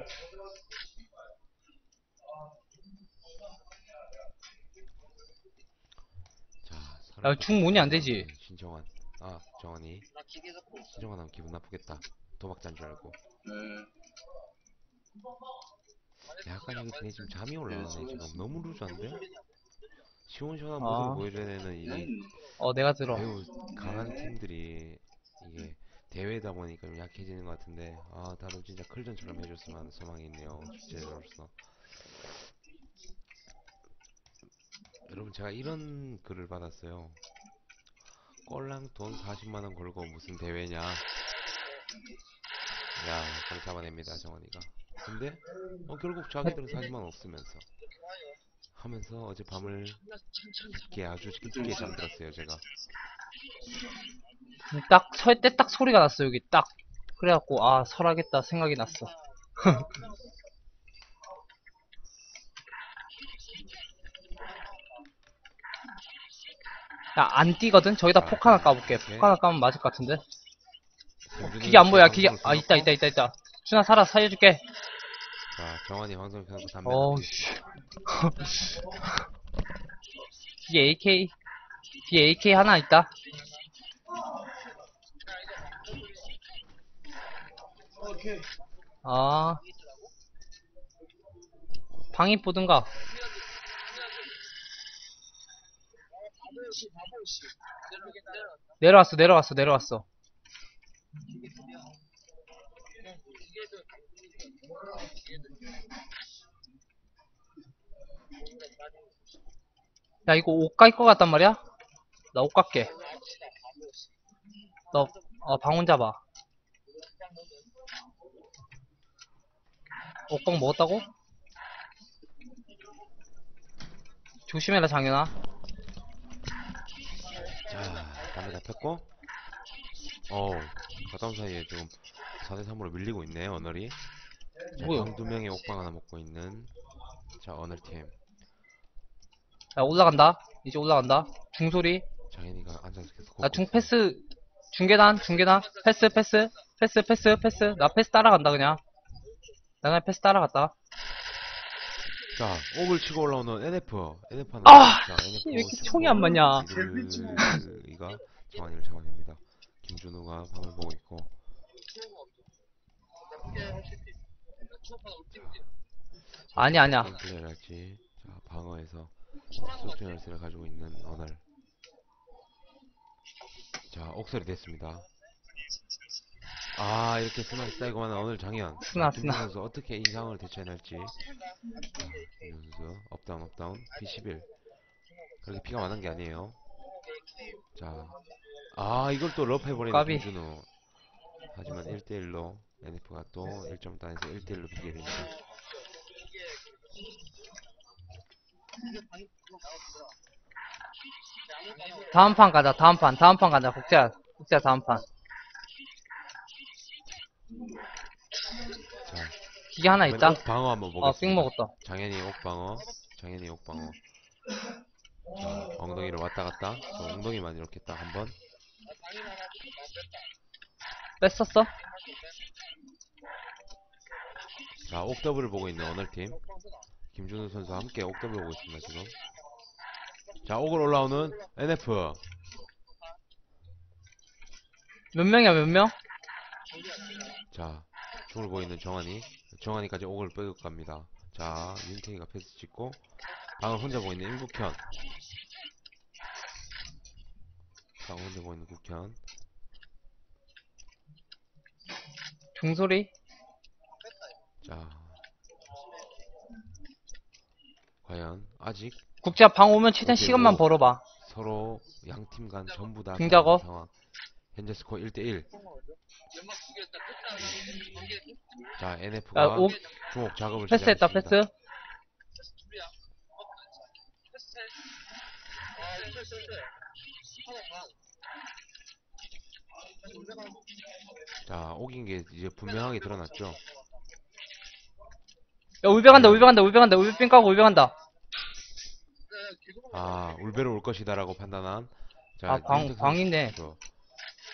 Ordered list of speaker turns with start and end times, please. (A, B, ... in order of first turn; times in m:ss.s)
0:06.6-0:10.1 A
0:07.2-0:08.3 B
0:10.7-0:13.2 A
0:13.4-0:13.9 C
0:16.3-0:19.3 A
0:17.7-0:18.4 C
0:20.2-0:22.1 A
0:20.8-0:21.2 B
0:21.8-0:22.4 C
0:22.6-0:23.3 B
0:23.0-0:32.3 A
0:23.7-0:24.4 C
0:35.1-0:37.2 A
0:38.4-0:41.1 A
0:43.0-0:47.7 A
0:48.7-0:50.0 A
0:50.6-0:52.6 A
0:51.4-0:52.0 C
0:54.7-0:59.9 B
1:07.1-1:10.2 B
1:08.1-1:09.3 A
1:11.2-1:13.0 A
1:11.4-1:14.6 B
1:15.5-1:17.4 A
1:16.8-1:19.1 B
1:20.7-1:21.3 B
1:22.1-1:23.1 B
1:28.0-1:28.5 C
1:29.0-1:29.6 B
1:32.1-1:32.9 B
1:38.8-1:40.0 B
1:50.2-1:51.6 B
1:52.3-1:52.9 B
1:54.9-1:56.2 B
2:00.3-2:01.0 B
2:04.5-2:05.3 B
2:07.5-2:09.1 A
2:10.3-2:14.0 A
2:14.8-2:16.7 A
2:14.8-2:15.1 B
2:17.4-2:18.2 A
2:19.8-2:22.0 B
2:22.3-2:23.9 A
2:23.4-2:28.8 B
2:29.8-2:30.7 B
2:32.3-2:41.3 A
2:34.6-2:36.7 B
2:36.7-2:37.6 C
2:45.3-2:45.6 A
2:46.5-2:51.4 A
2:46.6-2:47.1 B
2:53.9-2:55.1 A
2:56.7-3:01.2 A
2:58.8-2:59.5 B
3:01.8-3:04.5 A
3:05.4-3:06.6 A
3:07.7-3:10.7 A
3:09.9-3:10.3 B
3:11.5-3:15.4 A
3:22.1-3:25.0 B
3:27.5-3:27.8 C
3:29.0-3:29.4 A
3:29.7-3:30.4 B
3:29.9-3:34.0 A
3:31.0-3:31.7 B
3:35.3-3:38.4 A
3:41.2-3:41.7 B
3:44.8-3:46.4 A
3:47.1-3:49.2 A
3:50.4-3:52.2 A
3:55.1-3:55.9 B
3:57.5-4:03.0 A
4:03.6-4:04.8 A
4:08.0-4:09.2 A
4:12.6-4:13.1 B
4:14.6-4:15.2 A
4:18.0-4:19.0 A
4:19.2-4:21.0 B
4:20.0-4:23.9 A
4:23.2-4:23.6 B
4:24.5-4:25.5 A
4:28.8-4:31.4 A
4:29.3-4:29.8 B
4:30.7-4:31.5 B
4:41.4-4:43.6 A
4:45.8-4:47.9 B
4:46.1-4:46.6 A
4:49.9-4:53.8 A
4:52.5-4:53.5 B